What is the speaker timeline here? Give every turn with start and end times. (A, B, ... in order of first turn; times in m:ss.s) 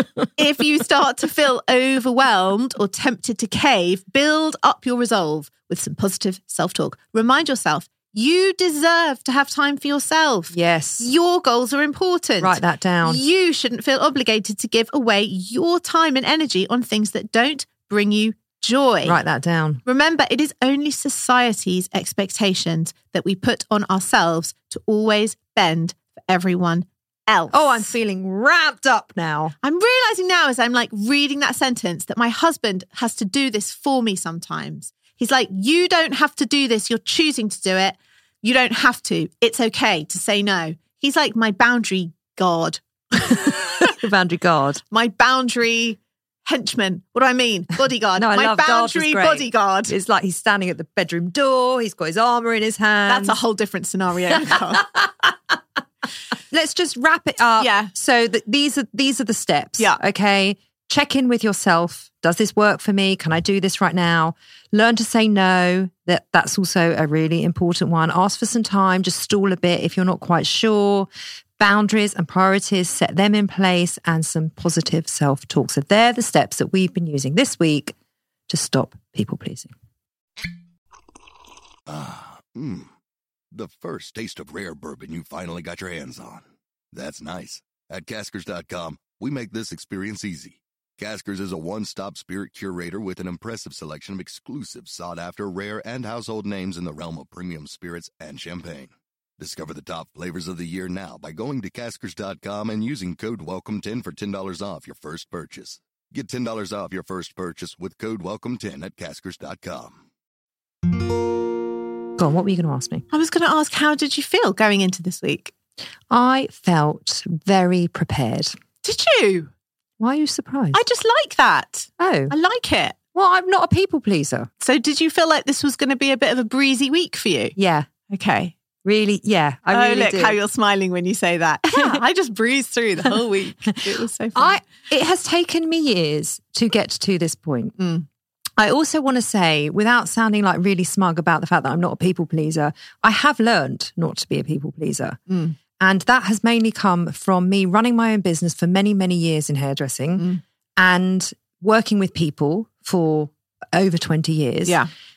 0:00.3-0:19.2 A
0:10.5-0:11.1 B
0:12.4-0:13.2 B
0:19.0-0:19.8 B
0:19.8-0:27.9 A
0:27.5-0:29.5 B
0:29.6-0:43.9 A
0:43.3-0:44.8 B
0:44.9-0:49.9 A
0:48.2-0:53.4 B
0:53.1-0:54.9 A
0:54.3-0:55.1 B
0:56.5-1:11.1 B
0:57.6-0:57.9 A
1:11.6-1:17.9 B
1:18.5-1:19.7 B
1:21.9-1:22.9 C
1:23.5-1:50.0 C
1:52.2-1:53.0 B
1:53.1-1:55.5 A
1:56.1-1:58.6 B
1:58.8-1:59.5 A
2:00.0-2:00.8 B
2:00.7-2:03.0 A
2:02.0-2:02.3 B
2:03.1-2:04.5 B
2:04.6-2:07.5 A
2:07.6-2:07.9 B
2:08.1-2:08.5 A
2:08.8-2:10.4 B
2:09.7-2:14.6 A
2:11.7-2:12.0 B
2:14.4-2:17.8 B
2:17.8-2:18.0 A
2:18.6-2:25.2 B
2:25.3-2:25.6 A
2:25.8-2:34.8 B